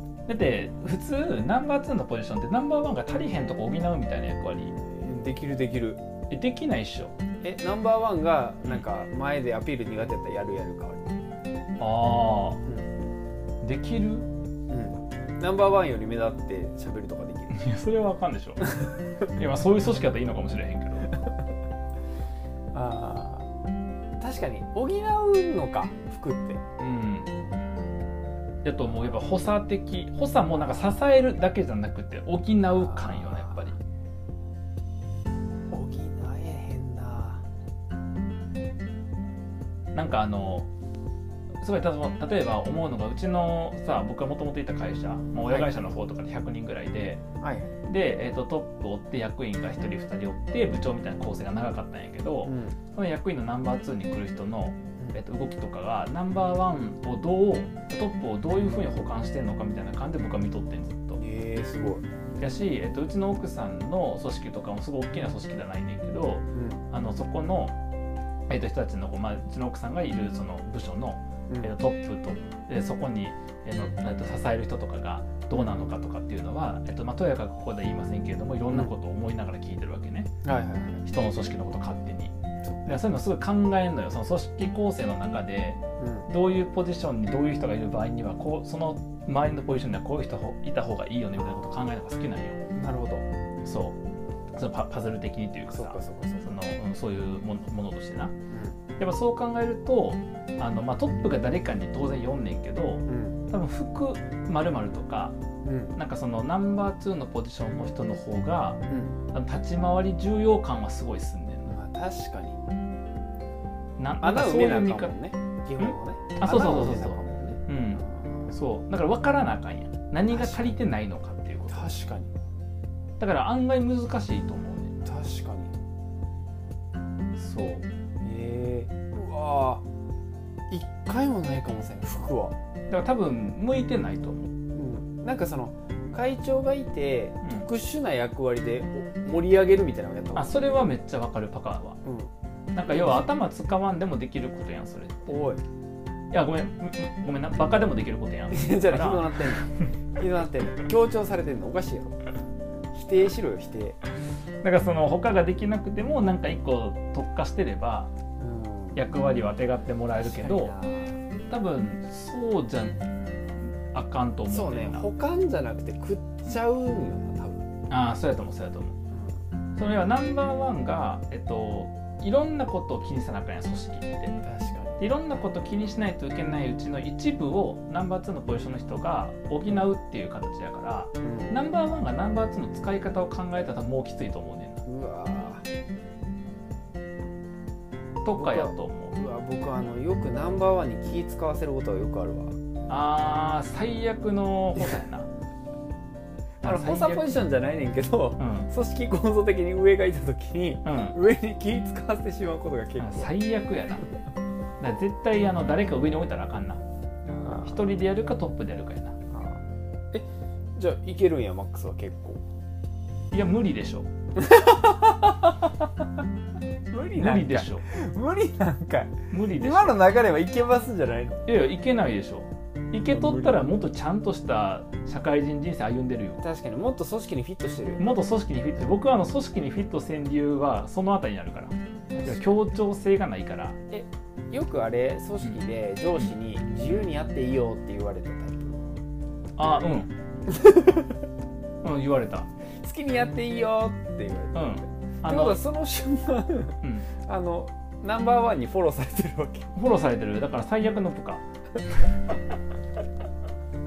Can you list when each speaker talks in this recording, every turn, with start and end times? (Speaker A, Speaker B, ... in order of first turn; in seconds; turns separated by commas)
Speaker A: 0.3-4.7, Speaker B: 4.7-6.0, Speaker A: 6.3-7.1, Speaker B: 7.4-11.1, Speaker A: 11.8-12.6, Speaker A: 13.6-14.3, Speaker B: 14.7-17.6, Speaker A: 17.5-18.8, Speaker A: 19.4-21.1, Speaker B: 22.7-23.5, Speaker B: 24.2-26.6, Speaker A: 26.8-27.3, Speaker A: 28.6-33.8, Speaker B: 32.7-33.7, Speaker B: 35.7-37.4, Speaker A: 39.9-40.7, Speaker A: 41.6-47.2, Speaker B: 45.4-45.8, Speaker B: 47.4-47.7, Speaker A: 47.9-61.2, Speaker B: 52.4-52.8, Speaker B: 61.2-62.0, Speaker A: 62.4-67.8, Speaker B: 66.5-66.8, Speaker A: 68.5-80.3, Speaker B: 75.5-75.9, Speaker B: 78.6-78.9, Speaker B: 80.4-81.0, Speaker A: 81.0-82.3, Speaker B: 82.6-83.0, Speaker A: 82.8-92.6, Speaker B: 86.0-86.3, Speaker B: 91.4-91.8, Speaker B: 92.7-93.2, Speaker A: 93.6-94.0, Speaker A: 94.5-98.3, Speaker B: 95.7-96.5, Speaker B: 98.5-98.8, Speaker A: 99.0-105.3, Speaker B: 103.1-103.4, Speaker B: 105.6-106.0, Speaker A: 106.0-108.8, Speaker B: 108.9-109.2, Speaker A: 109.3-111.8, Speaker B: 111.7-112.6, Speaker A: 114.0-115.1, Speaker B: 114.2-118.5, Speaker A: 115.8-121.9, Speaker B: 120.3-120.8, Speaker B: 121.7-122.3, Speaker A: 123.2-124.9, Speaker B: 125.0-125.7, Speaker A: 127.3-127.9, Speaker B: 128.2-129.8, Speaker B: 130.7-132.5, Speaker A: 132.9-134.5, Speaker B: 134.7-140.7, Speaker A: 137.4-137.7, Speaker A: 140.3-142.0, Speaker B: 142.0-142.3, Speaker A: 142.7-145.4, Speaker B: 142.9-143.3, Speaker B: 145.3-145.6, Speaker A: 146.3-149.5, Speaker B: 148.5-152.2, Speaker B: 152.9-154.0, Speaker A: 154.6-158.1, Speaker B: 158.4-159.1, Speaker A: 158.9-160.7, Speaker B: 160.2-161.2, Speaker A: 161.5-163.0, Speaker A: 163.9-165.1, Speaker B: 164.5-167.6, Speaker A: 167.9-168.9, Speaker B: 169.1-169.4, Speaker A: 169.8-174.3, Speaker B: 174.4-175.0, Speaker A: 175.0-184.8, Speaker B: 181.2-181.6, Speaker B: 184.8-185.6, Speaker A: 188.2-189.2, Speaker B: 188.3-192.6, Speaker A: 192.9-195.3, Speaker A: 196.6-197.4, Speaker B: 196.6-203.3, Speaker A: 198.4-198.7, Speaker A: 200.8-201.2, Speaker A: 203.0-204.0, Speaker A: 204.8-206.8, Speaker B: 207.2-207.8, Speaker A: 207.6-209.2, Speaker B: 209.3-212.4, Speaker A: 213.3-214.1, Speaker B: 214.3-215.7, Speaker B: 216.9-221.4, Speaker A: 217.1-217.8, Speaker A: 219.3-220.1, Speaker A: 221.4-226.4, Speaker B: 223.0-223.7, Speaker B: 226.4-228.0, Speaker A: 228.0-233.8, Speaker B: 232.1-232.6, Speaker B: 233.9-238.8, Speaker A: 239.6-240.1, Speaker B: 240.5-241.0, Speaker A: 241.8-242.5, Speaker B: 242.8-244.7, Speaker A: 244.5-245.6, Speaker B: 245.2-249.7, Speaker A: 246.8-247.1, Speaker A: 249.7-251.4